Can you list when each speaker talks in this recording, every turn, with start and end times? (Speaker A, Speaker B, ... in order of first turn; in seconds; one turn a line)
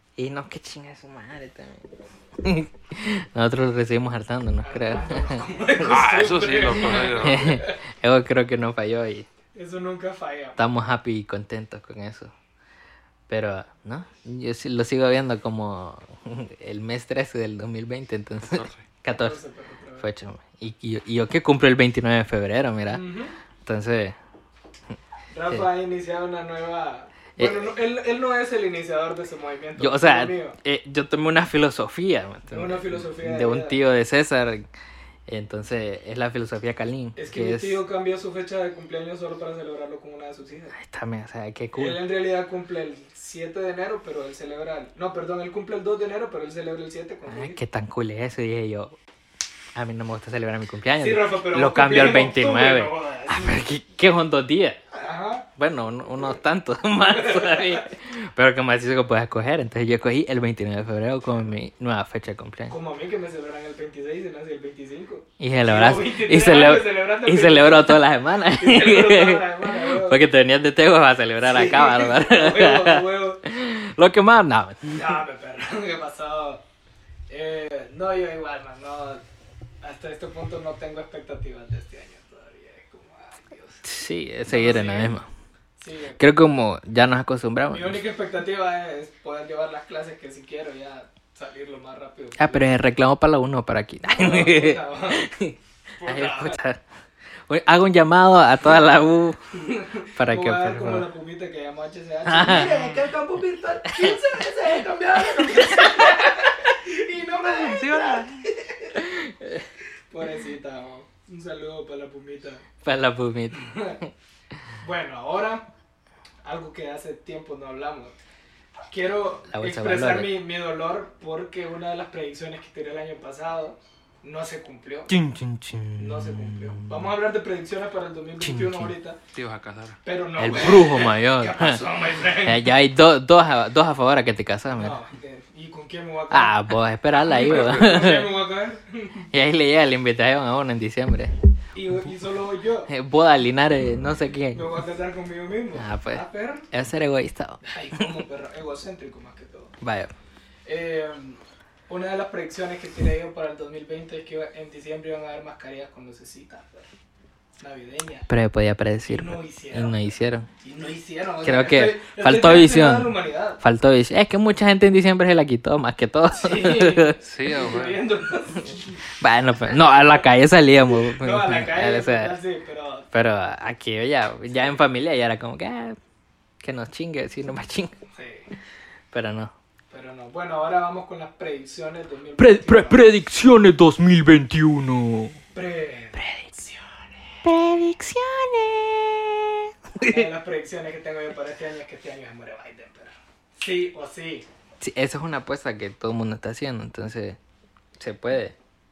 Speaker A: 0.2-5.4
Speaker B: 4.6-7.8
Speaker C: 5.8-7.5
Speaker A: 6.9-9.3
Speaker B: 9.5-10.6
Speaker A: 10.6-12.3
Speaker A: 13.3-19.4
Speaker C: 18.4-18.8
Speaker B: 19.1-20.1
Speaker A: 20.0-23.0
Speaker B: 22.9-23.3
Speaker A: 23.6-24.1
Speaker B: 25.3-30.6
Speaker A: 27.4-27.7
Speaker A: 29.8-34.7
Speaker B: 32.5-33.8
Speaker A: 35.3-37.8
Speaker B: 37.1-40.8
Speaker A: 40.7-42.0
Speaker B: 41.7-47.6
Speaker A: 47.3-49.0
Speaker A: 49.7-54.8
Speaker B: 51.0-53.6
Speaker B: 54.9-55.5
Speaker A: 55.6-62.7
Speaker B: 57.1-57.9
Speaker B: 62.7-70.2
Speaker A: 65.4-75.2
Speaker B: 71.4-73.4
Speaker B: 74.9-76.6
Speaker B: 77.3-79.2
Speaker B: 79.8-83.8
Speaker A: 83.8-85.3
Speaker B: 84.5-85.2
Speaker B: 85.8-86.2
Speaker A: 86.2-88.0
Speaker B: 87.7-92.7
Speaker A: 92.4-96.8
Speaker B: 94.0-95.3
Speaker B: 96.0-96.6
Speaker A: 97.5-99.6
Speaker B: 99.5-109.1
Speaker A: 100.2-101.1
Speaker A: 102.2-102.8
Speaker A: 105.4-106.1
Speaker C: 107.6-108.5
Speaker A: 109.0-109.6
Speaker B: 110.1-112.6
Speaker A: 112.8-114.1
Speaker B: 113.5-114.0
Speaker B: 114.8-115.7
Speaker B: 116.4-118.2
Speaker B: 118.9-125.1
Speaker A: 119.5-120.3
Speaker A: 125.1-127.1
Speaker B: 126.0-129.2
Speaker A: 128.4-128.9
Speaker C: 129.3-130.0
Speaker B: 130.0-132.7
Speaker A: 130.4-131.8
Speaker A: 132.4-135.0
Speaker B: 134.8-139.3
Speaker A: 136.3-138.3
Speaker C: 137.4-137.9
Speaker A: 139.3-141.3
Speaker B: 141.7-142.9
Speaker A: 142.9-144.8
Speaker B: 144.5-146.7
Speaker A: 145.7-148.2
Speaker B: 147.6-149.7
Speaker A: 149.8-150.1
Speaker B: 150.7-156.9
Speaker B: 157.6-158.3
Speaker A: 158.3-160.5
Speaker B: 159.1-163.6
Speaker A: 161.4-167.2
Speaker B: 166.3-169.0
Speaker C: 167.2-168.0
Speaker A: 169.2-172.4
Speaker B: 169.7-170.2
Speaker B: 170.9-173.1
Speaker A: 173.1-176.0
Speaker B: 174.5-174.8
Speaker A: 176.6-177.9
Speaker B: 178.1-178.5
Speaker A: 179.1-179.5
Speaker B: 179.9-183.1
Speaker A: 182.4-185.4
Speaker B: 185.5-187.1
Speaker A: 186.1-186.4
Speaker A: 187.4-190.3
Speaker B: 190.0-194.5
Speaker A: 194.8-197.4
Speaker A: 198.0-198.5